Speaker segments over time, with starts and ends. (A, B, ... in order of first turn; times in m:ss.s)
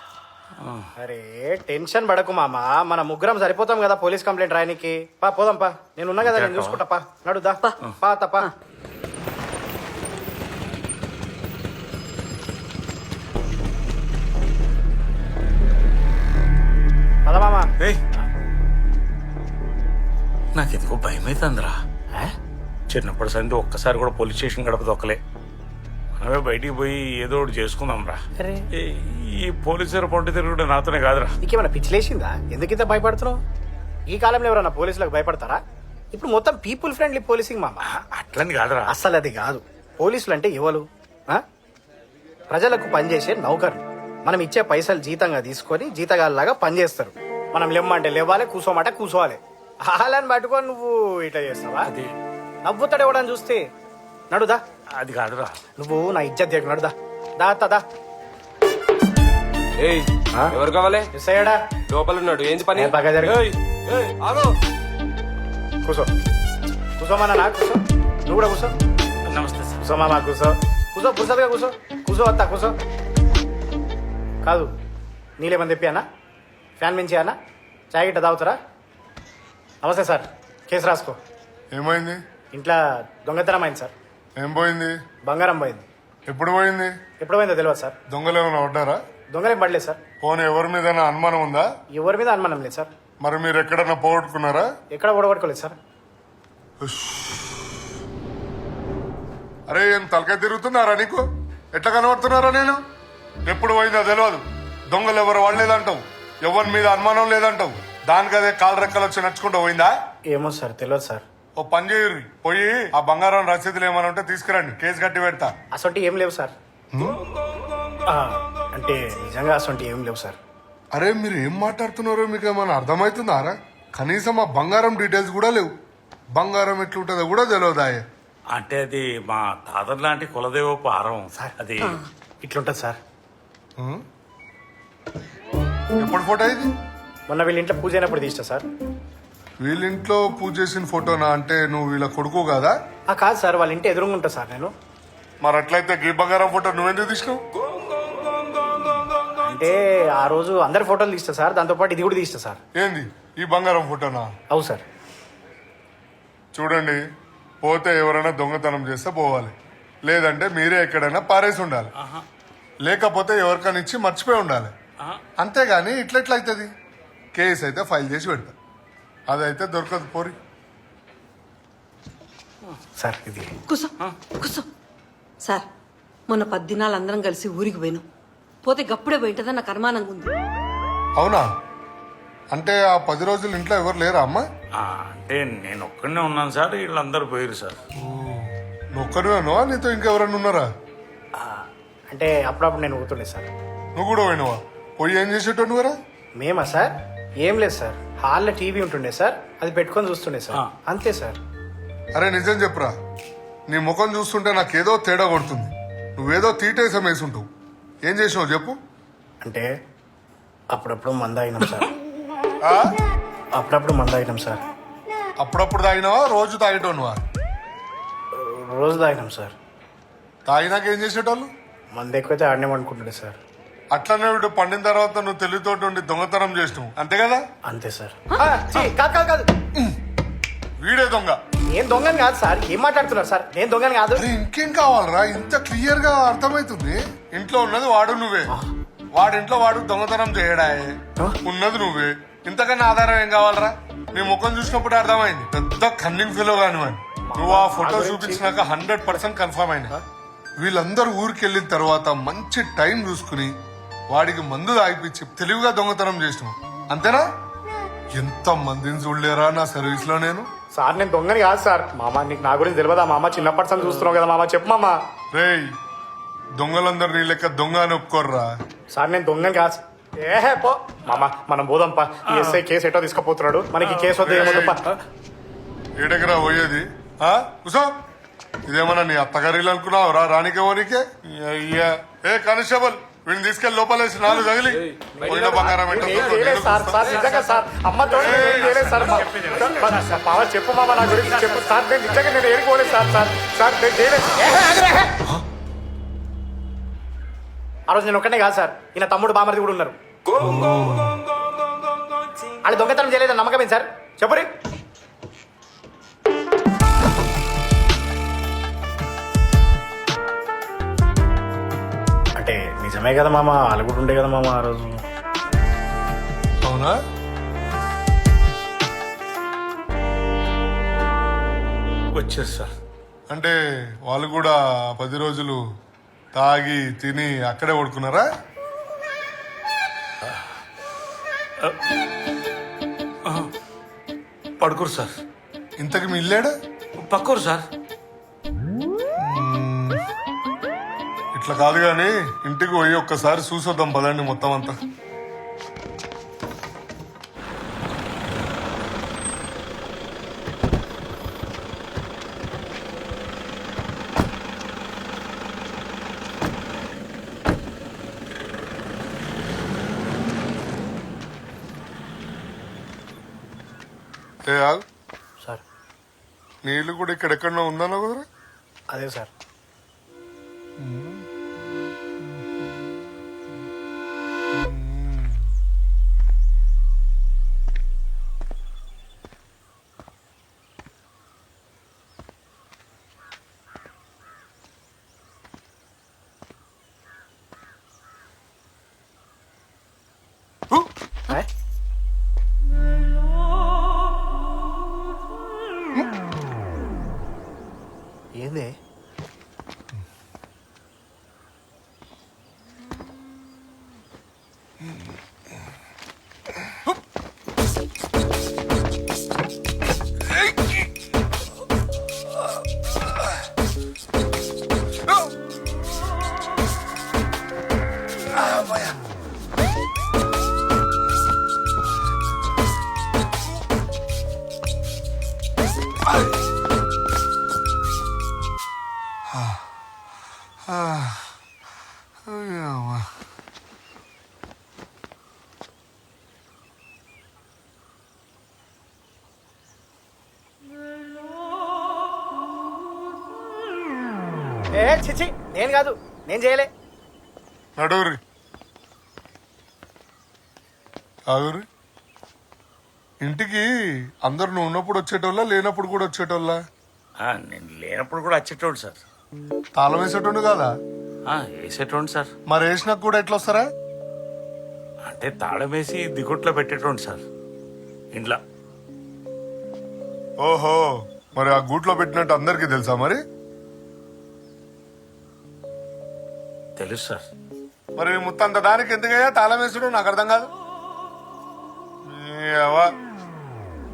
0:00.6-0:00.9 A
0:01.0-0:08.5 B
0:06.3-0:06.8 A
0:17.2-0:17.7 B
0:20.6-0:21.8 A
0:22.9-0:25.2 A
0:26.2-0:28.2 A
0:28.4-0:28.6 B
0:28.8-0:31.3 A
0:31.4-0:33.4 B
0:34.1-0:35.6 B
0:36.1-0:37.9 B
0:38.0-0:38.9 A
0:38.9-0:41.4 B
0:42.5-0:51.9 B
0:51.9-0:52.1 A
0:52.6-0:53.6 B
0:54.3-0:54.6 B
0:55.0-0:55.6 A
0:55.8-0:57.8 B
0:59.8-1:01.1 C
1:01.2-1:01.6 B
1:01.9-1:04.5 C
1:02.8-1:03.4 B
1:05.8-1:06.1 B
1:07.0-1:08.8 B
1:09.3-1:09.8 A
1:09.8-1:12.7 B
1:14.4-1:14.7 B
1:15.4-1:16.0 B
1:16.8-1:17.4 B
1:17.9-1:18.6 B
1:19.8-1:21.2 B
1:21.7-1:22.2 D
1:22.5-1:23.9 B
1:24.4-1:24.9 D
1:25.2-1:25.9 B
1:26.3-1:26.9 D
1:27.2-1:28.0 B
1:28.1-1:29.0 D
1:29.3-1:30.0 B
1:30.2-1:31.7 D
1:32.0-1:32.9 B
1:33.2-1:34.7 D
1:34.9-1:35.8 B
1:36.8-1:37.7 D
1:39.7-1:42.8 D
1:43.5-1:49.9 D
1:50.3-1:51.2 B
1:51.6-1:55.5 D
1:55.7-1:56.5 B
1:58.1-2:00.4 B
2:00.9-2:05.7 D
2:06.4-2:08.0 D
2:08.5-2:12.0 A
2:12.4-2:13.0 B
2:16.0-2:16.7 D
2:17.3-2:18.7 B
2:19.6-2:22.7 D
2:23.1-2:24.7 B
2:25.4-2:27.4 D
2:29.4-2:32.6 B
2:32.8-2:34.3 D
2:34.5-2:34.8 B
2:36.5-2:37.0 D
2:37.6-2:39.5 D
2:40.0-2:41.9 D
2:42.0-2:42.2 A
2:42.8-2:44.7 D
2:45.4-2:46.7 D
2:47.4-2:48.5 D
2:49.3-2:50.4 D
2:53.0-2:53.5 B
2:53.7-2:54.6 E
2:56.3-2:58.0 E
2:58.6-3:00.3 E
3:01.2-3:01.5 D
3:02.5-3:04.4 D
3:04.8-3:07.8 A
3:08.0-3:10.7 D
3:11.4-3:13.5 B
3:14.0-3:16.0 D
3:16.4-3:21.4 B
3:22.2-3:22.9 D
3:23.7-3:27.5 D
3:28.1-3:28.8 D
3:29.4-3:29.7 B
3:30.7-3:31.9 B
3:33.6-3:34.6 B
3:35.4-3:37.2 D
3:38.3-3:39.5 B
3:40.5-3:41.5 D
3:41.9-3:43.4 B
3:43.9-3:47.4 D
3:47.7-3:49.5 B
3:50.8-3:51.4 D
3:51.7-3:54.2 B
3:54.2-3:58.5 D
3:59.2-4:10.0 D
4:07.3-4:08.5 B
4:10.6-4:13.5 D
4:14.1-4:17.2 D
4:18.2-4:20.5 D
4:20.8-4:25.0 B
4:25.3-4:25.7 D
4:26.6-4:28.5 D
4:28.9-4:34.8 B
4:32.3-4:32.6 A
4:34.1-4:34.8 D
4:36.0-4:37.9 D
4:38.7-4:47.3 D
4:44.8-4:45.8 C
4:45.7-4:55.1 B
4:48.2-4:48.8 D
4:48.2-4:50.2 A
4:57.9-5:00.0 B
5:00.4-5:01.2 D
5:02.6-5:04.5 B
5:12.4-5:15.0 B
5:16.6-5:16.9 D
5:22.1-5:22.7 A
5:23.3-5:25.6 D
5:26.4-5:28.3 D
5:34.6-5:35.1 A
5:35.8-5:36.5 D
5:37.0-5:37.6 A
5:39.2-5:40.0 D
5:41.3-5:44.7 D
6:04.5-6:04.8 D
6:06.6-6:08.3 D
6:08.9-6:09.3 B
6:10.8-6:11.3 D
6:12.2-6:12.5 D
6:14.5-6:15.4 D
6:38.4-6:38.7 B
7:09.3-7:09.6 D
7:10.7-7:11.3 D
7:12.2-7:13.1 D
7:24.8-7:26.7 B
7:27.8-7:28.2 D
7:31.3-7:31.6 D
7:33.2-7:33.7 D
7:34.2-7:36.6 D
7:37.2-7:39.0 A
7:39.8-7:40.7 D
7:41.3-7:42.3 A
7:42.5-7:43.7 D
7:45.1-7:47.2 A
7:48.1-7:48.4 A
7:50.4-7:53.2 D
7:56.8-7:57.3 A
7:58.0-8:00.5 D
8:02.1-8:02.9 D